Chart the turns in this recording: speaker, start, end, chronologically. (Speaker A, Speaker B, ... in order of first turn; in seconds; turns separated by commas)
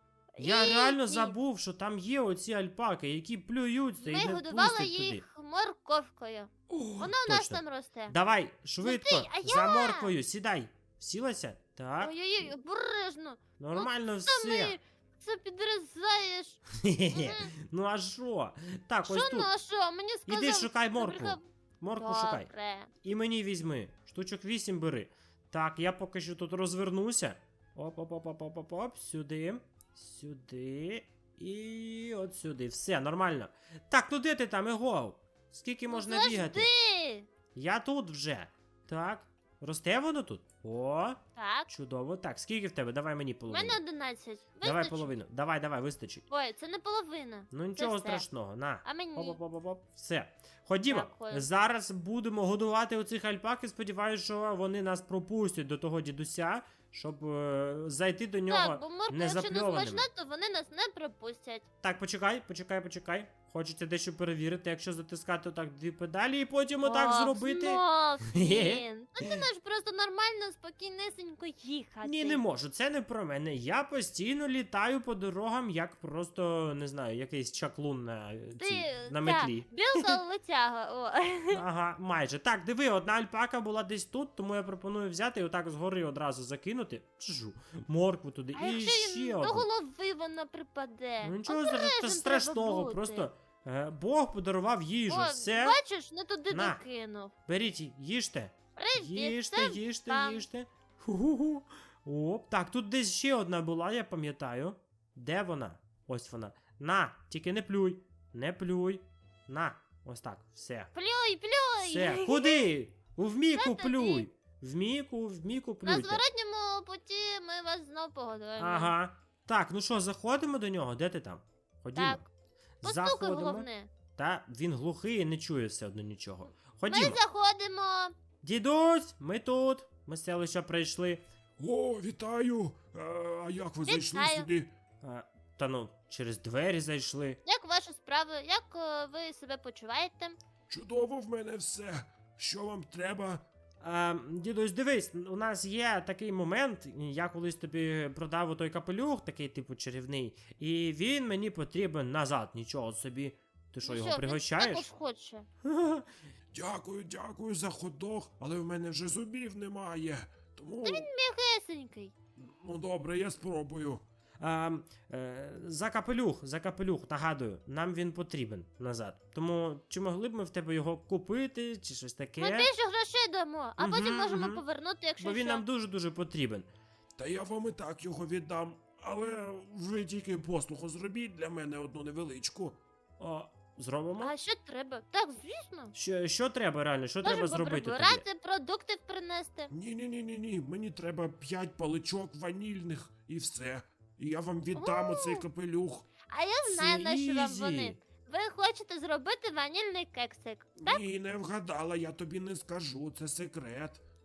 Speaker A: 0.4-1.4, Speaker B: 0.4-5.2, Speaker A: 4.0-8.1, Speaker B: 6.7-12.1, Speaker A: 8.8-10.2, Speaker A: 12.0-17.5, Speaker B: 13.6-14.8, Speaker B: 16.8-19.5, Speaker A: 19.1-21.5, Speaker B: 20.3-22.5, Speaker A: 22.0-22.9, Speaker B: 23.0-36.7, Speaker A: 35.9-37.3, Speaker B: 37.5-43.8, Speaker A: 41.4-41.7, Speaker A: 43.5-45.2, Speaker B: 44.6-46.2, Speaker A: 46.3-48.3, Speaker B: 47.5-60.1, Speaker A: 48.8-49.4, Speaker A: 50.9-51.5, Speaker A: 58.5-61.7, Speaker B: 61.8-69.4, Speaker A: 66.8-72.4, Speaker B: 72.0-80.2, Speaker A: 78.6-81.6, Speaker B: 81.5-89.7, Speaker A: 88.5-93.3, Speaker B: 91.2-95.8, Speaker A: 95.1-97.3, Speaker B: 96.5-96.8, Speaker B: 97.5-110.9, Speaker A: 98.8-100.5, Speaker A: 110.9-112.7, Speaker B: 111.8-116.2, Speaker A: 113.5-114.3, Speaker A: 115.8-118.9, Speaker B: 118.6-122.2, Speaker A: 122.0-122.3, Speaker B: 122.8-127.2, Speaker A: 122.8-123.9, Speaker A: 126.9-128.1, Speaker B: 128.4-131.2, Speaker C: 131.6-134.7, Speaker A: 133.8-134.5, Speaker B: 135.0-137.4, Speaker A: 137.4-140.4, Speaker C: 140.7-143.4, Speaker B: 143.8-154.9, Speaker A: 153.8-155.5, Speaker B: 155.6-156.1, Speaker C: 156.5-161.1, Speaker A: 160.8-162.1, Speaker C: 162.4-164.0, Speaker B: 164.4-172.7, Speaker A: 172.4-175.6, Speaker B: 173.8-174.6, Speaker B: 175.2-176.7, Speaker C: 177.2-182.8, Speaker B: 183.2-184.3, Speaker A: 184.2-185.9, Speaker B: 185.9-188.2, Speaker A: 187.2-189.7, Speaker C: 189.7-196.1, Speaker A: 194.7-195.5, Speaker A: 196.3-201.0, Speaker B: 196.7-198.0, Speaker C: 200.8-204.0